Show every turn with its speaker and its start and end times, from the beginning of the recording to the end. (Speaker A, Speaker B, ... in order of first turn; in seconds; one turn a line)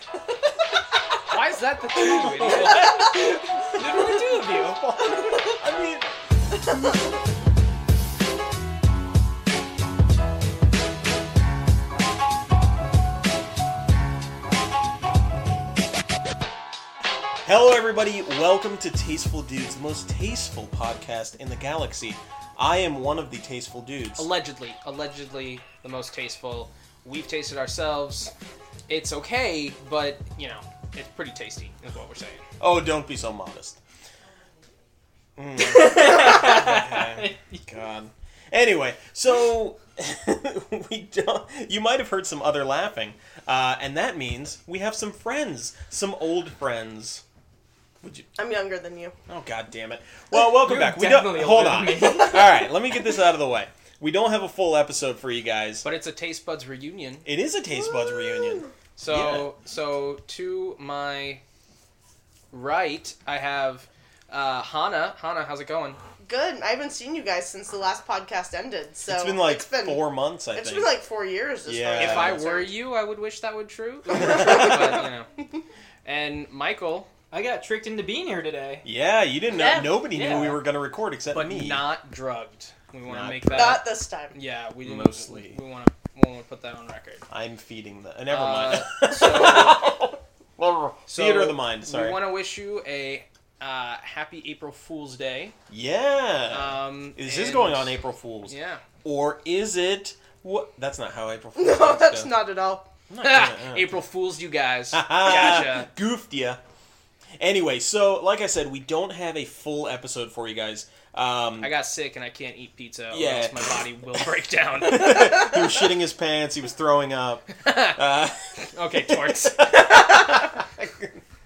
Speaker A: 1.3-3.1
Speaker B: 2.0-4.8
Speaker C: 3.8-6.1
Speaker D: 5.0-5.6
Speaker C: 17.4-24.3
Speaker A: 24.2-28.3
Speaker A: 28.9-32.5
Speaker C: 32.6-33.8
Speaker C: 35.4-47.2
Speaker B: 35.6-37.6
Speaker C: 48.0-48.3
Speaker D: 48.4-49.1
Speaker C: 49.3-55.9
Speaker B: 50.5-52.5
Speaker A: 55.8-57.3
Speaker C: 57.2-59.5
Speaker D: 57.9-58.7
Speaker A: 59.0-61.4
Speaker A: 62.5-66.0
Speaker D: 66.2-72.7
Speaker C: 69.1-71.0
Speaker C: 71.7-72.4
Speaker A: 72.0-75.3
Speaker D: 74.2-75.1
Speaker A: 76.0-77.1
Speaker B: 77.3-78.8
Speaker C: 78.8-81.9
Speaker B: 79.8-80.6
Speaker A: 81.3-87.2
Speaker C: 83.1-83.8
Speaker D: 83.5-84.4
Speaker C: 84.8-85.6
Speaker C: 87.3-92.2
Speaker A: 88.3-90.0
Speaker A: 91.1-95.5
Speaker C: 95.7-102.3
Speaker A: 96.5-98.8
Speaker D: 101.5-102.9
Speaker C: 103.1-104.0
Speaker A: 103.2-105.9
Speaker C: 104.9-106.6
Speaker C: 107.4-111.7
Speaker A: 111.6-115.5
Speaker C: 113.1-114.3
Speaker C: 114.8-121.2
Speaker A: 117.6-118.0
Speaker A: 118.7-120.0